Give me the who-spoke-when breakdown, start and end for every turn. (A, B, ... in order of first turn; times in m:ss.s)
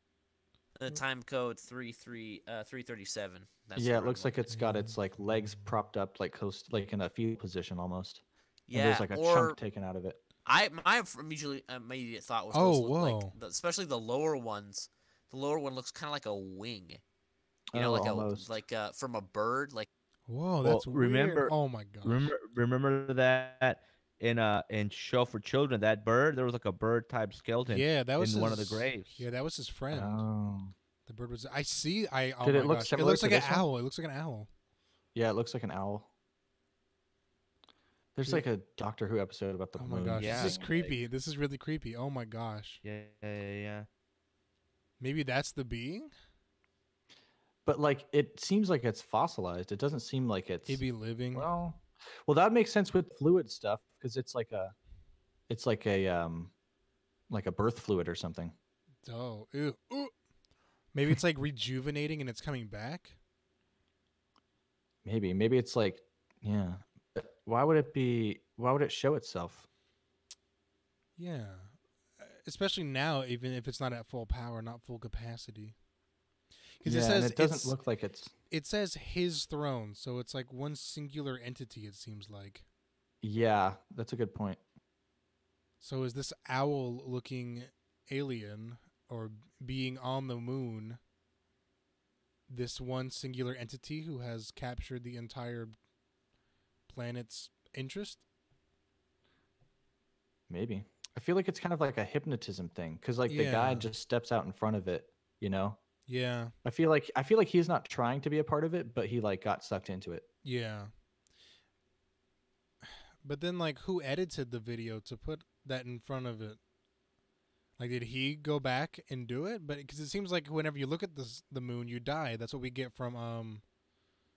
0:00.8-0:04.3 A
0:03.8-0:10.2 B
0:04.5-0:04.9 C
0:08.7-0:09.6 A
0:10.4-0:17.0 A
0:12.5-0:13.3 C
0:17.7-0:18.6 B
0:17.7-0:19.9 A
0:20.3-0:22.3 C
0:20.6-0:29.2 D
0:27.7-0:30.2 C
0:29.9-0:30.7 B
0:31.0-0:34.5 C
0:32.4-0:33.6 B
0:35.1-0:36.1 B
0:38.2-0:40.9 B
0:39.8-0:42.8 C
0:40.2-0:40.6 D
0:42.8-0:43.9 D
0:45.0-0:46.1 C
0:47.6-0:50.8 B
0:50.7-0:51.5 C
0:51.3-0:54.7 B
0:55.5-0:56.5 B
0:57.3-0:58.5 B
0:59.0-1:00.1 C
1:00.9-1:03.2 C
1:05.0-1:09.6 B
1:11.2-1:15.7 C
1:16.8-1:17.8 C
1:16.8-1:18.3 B
1:18.5-1:22.6 C
1:23.2-1:24.6 B
1:25.8-1:31.0 C
1:32.5-1:35.7 C
1:36.9-1:38.2 C
1:40.5-1:45.8 B
1:43.3-1:43.9 C
1:46.1-1:46.5 C
1:46.6-1:50.3 B
1:50.4-1:50.9 C
1:53.2-1:56.6 C
1:57.8-2:03.6 C